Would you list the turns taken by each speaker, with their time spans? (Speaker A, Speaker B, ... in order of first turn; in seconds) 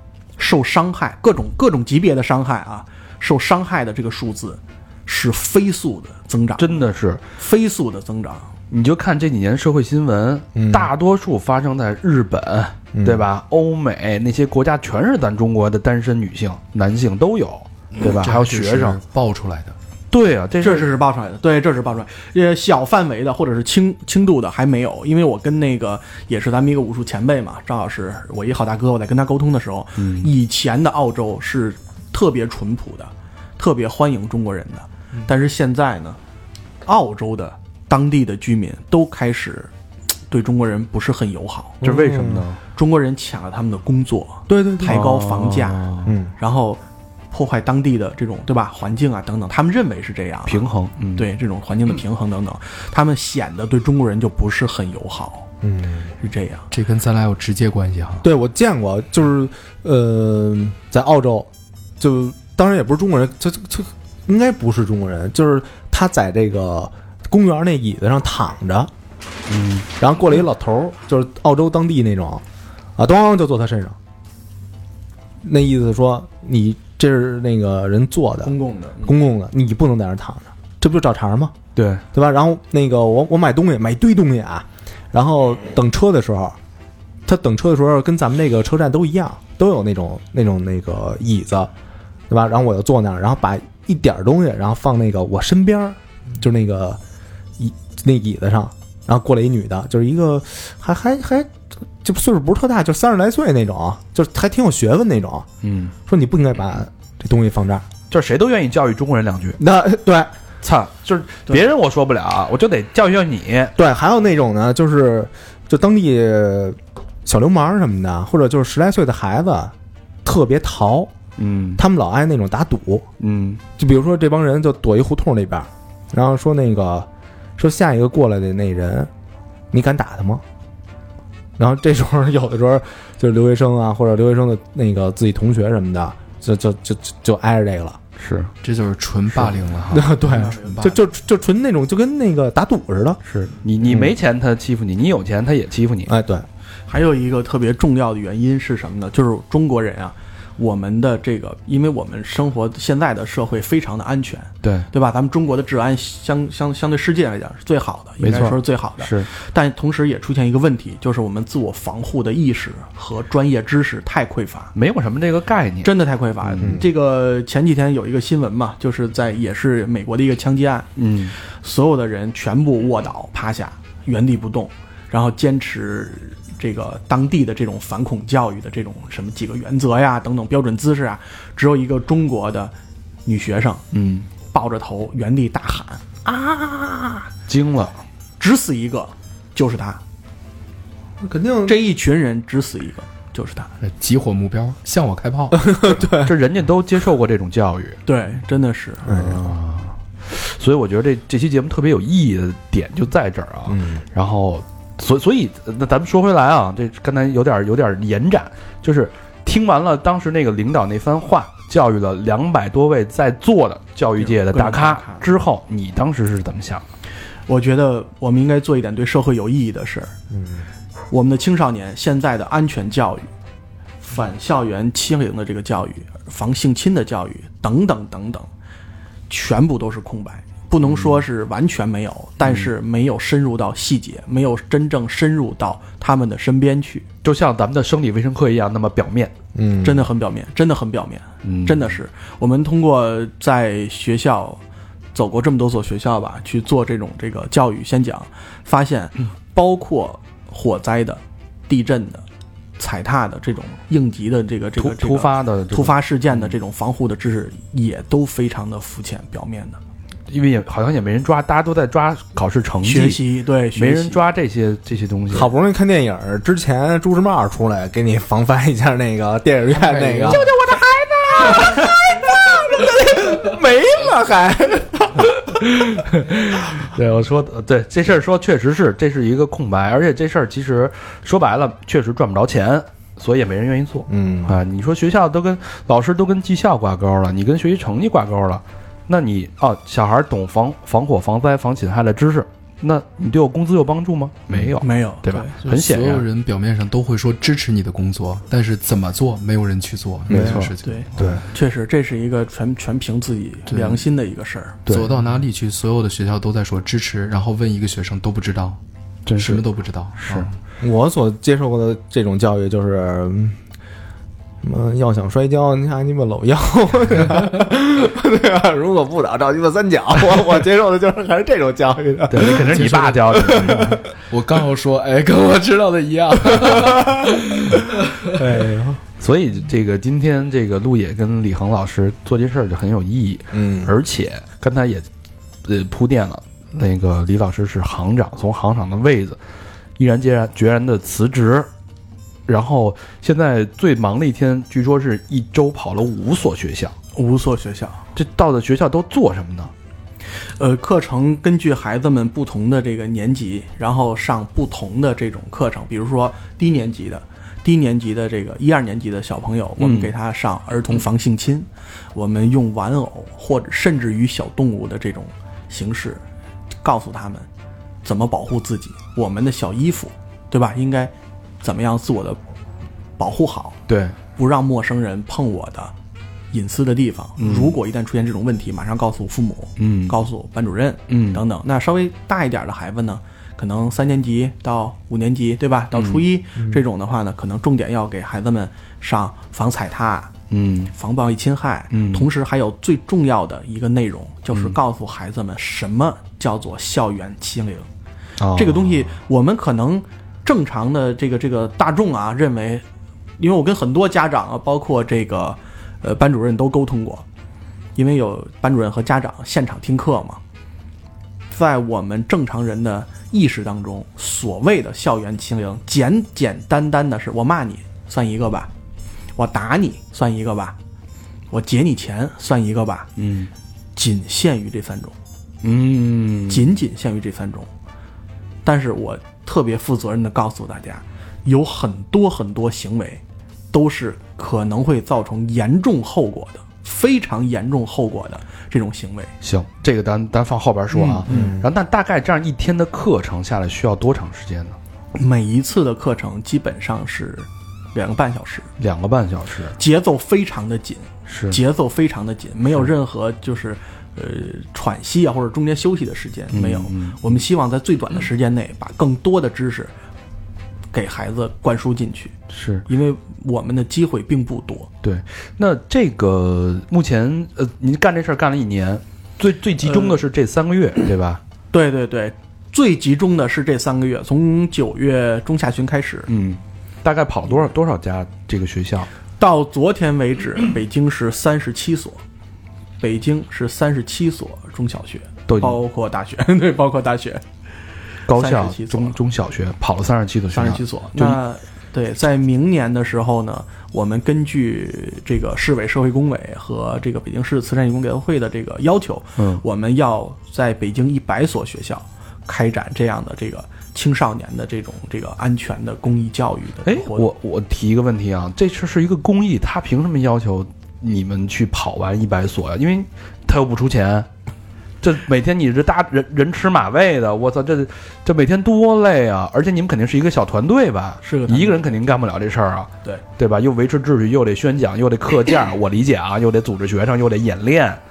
Speaker A: 0.4-6.8, 7.3-8.5, 20.6-36.2, 36.8-39.7, 40.3-41.8, 42.7-55.5, 56.2-56.7, 78.4-79.1, 140.2-140.9, 146.9-164.7, 165.8-182.7, 183.2-183.8, 184.4-186.2, 188.4-190.0, 191.7-193.7, 198.1-199.2, 214.2-215.2, 217.5-220.1, 221.1-223.3, 224.0-228.5, 229.3-237.1, 239.8-244.6, 245.1-252.2, 252.8-259.8, 262.8-264.2, 294.8-295.5, 300.8-304.8, 347.1-348.0, 350.6-366.2, 366.8-367.5, 368.0-372.4, 373.2-373.8, 374.4-375.9, 376.5-390.3, 390.9-397.9, 398.5-402.8, 403.4-407.2, 407.9-410.4, 411.5-418.7, 419.4-420.8, 421.5-423.1, 423.9-425.1, 426.5-427.7, 428.6-439.3, 440.9-441.5, 445.1-448.7, 449.8-459.9, 460.9-462.3, 462.9-464.9, 469.9-470.2, 471.7-476.3, 479.4-482.2, 483.0-487.4, 488.3-489.2, 490.5-507.3, 521.2-521.9
Speaker B: 6.6-7.2, 8.7-19.0, 20.1-20.9, 30.0-30.3, 41.8-42.6, 44.8-46.1, 50.5-51.3, 69.5-69.8, 81.8-82.0, 105.6-105.9, 108.1-109.6, 110.6-113.7, 121.4-121.8, 123.2-123.6, 138.2-138.5, 143.2-146.1, 158.2-159.3, 164.7-165.9, 166.4-166.8, 170.9-171.3, 183.9-184.3, 187.5-188.0, 196.0-198.0, 199.1-216.8, 230.9-231.2, 237.2-239.3, 241.4-241.9, 254.8-256.5, 260.3-263.2, 263.8-265.5, 275.3-296.2, 300.3-301.4, 303.7-304.0, 304.9-305.1, 309.2-309.6, 310.2-310.5, 322.3-324.0, 329.2-335.1, 335.6-339.4, 340.0-341.7, 342.5-346.9, 348.1-349.7, 359.8-360.1, 373.9-374.1, 377.4-377.7, 379.8-380.1, 381.1-381.4, 385.9-386.2, 390.5-390.9, 391.9-392.3, 398.4-399.1, 423.2-423.5, 425.6-426.7, 439.4-444.8, 448.8-449.8, 451.3-451.6, 456.5-457.2, 462.5-462.8, 465.0-471.4, 476.3-479.1, 485.5-485.8, 488.3-491.4, 499.4-499.6, 506.9-514.3, 515.0-528.0
Speaker C: 10.5-10.9, 12.9-13.3, 41.8-42.5, 44.5-45.1, 46.0-46.3, 55.6-56.1, 58.2-68.9, 69.9-72.4, 73.0-74.0, 75.4-81.5, 82.1-86.6, 87.2-91.7, 92.3-97.0, 97.6-105.5, 106.0-107.8, 109.6-110.3, 113.7-119.7, 120.2-121.1, 121.8-123.0, 123.8-129.1, 129.7-130.4, 131.6-138.0, 139.3-143.2, 143.8-144.2, 146.1-146.5, 186.2-187.2, 191.2-191.8, 195.5-196.3, 199.1-199.5, 203.7-204.0, 220.3-220.6, 239.5-240.1, 265.3-275.3, 284.1-284.6, 300.3-301.4, 310.8-313.6, 314.6-324.0, 326.5-327.3, 328.3-329.0, 333.5-333.9, 441.3-441.7
Speaker D: 17.9-19.7, 56.7-58.2, 138.6-140.9, 193.8-196.0, 269.7-270.6, 295.6-301.1, 304.9-308.8, 309.4-310.5, 322.7-328.5